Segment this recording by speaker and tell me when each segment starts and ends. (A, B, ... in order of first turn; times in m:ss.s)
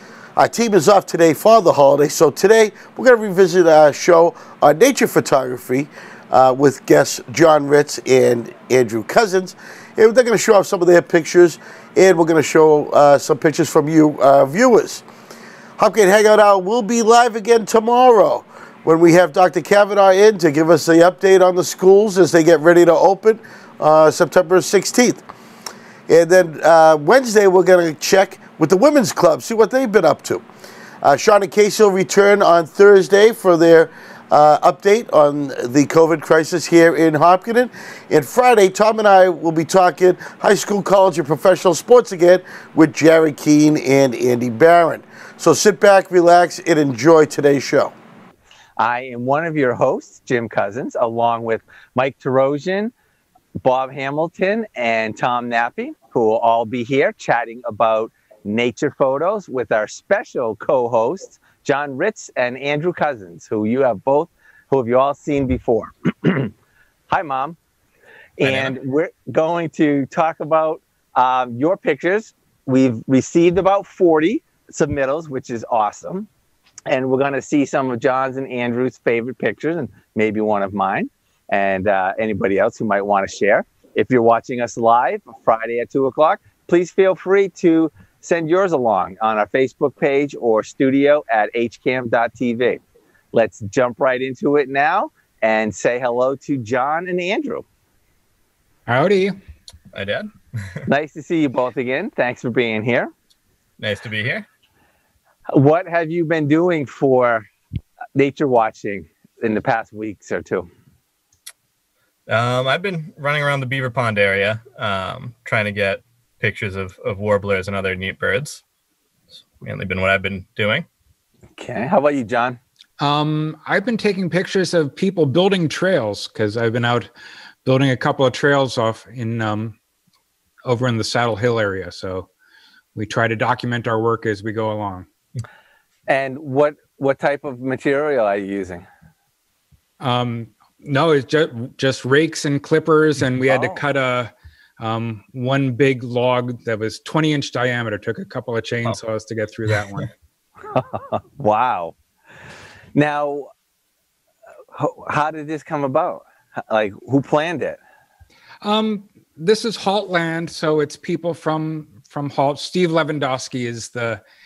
0:00.4-0:15.0 A
0:15.8-0:25.2 A
0:26.1-0:30.4 A
0:31.0-0:47.9 A
0:48.8-0:52.9 B
0:53.6-1:06.5 B
1:07.1-1:07.6 B
1:08.4-1:16.3 B
1:08.4-1:08.7 C
1:16.9-1:32.8 B
1:33.3-1:37.6 B
1:38.9-1:39.4 D
1:39.9-1:40.8 C
1:40.9-1:43.1 B
1:43.8-1:44.4 C
1:45.5-1:47.5 B
1:48.1-1:50.7 B
1:52.3-1:58.6 C
1:59.5-2:00.8 C
2:01.6-2:02.6 B
2:03.0-2:07.1 D
2:07.6-2:09.8 D
2:10.6-2:12.3 D
2:12.9-2:15.1 D
2:16.1-2:18.8 B
2:20.0-2:30.1 D
2:23.4-2:23.8 B
2:30.7-2:31.9 B
2:32.9-2:33.5 B
2:34.7-2:37.8 B
2:38.6-2:44.2 D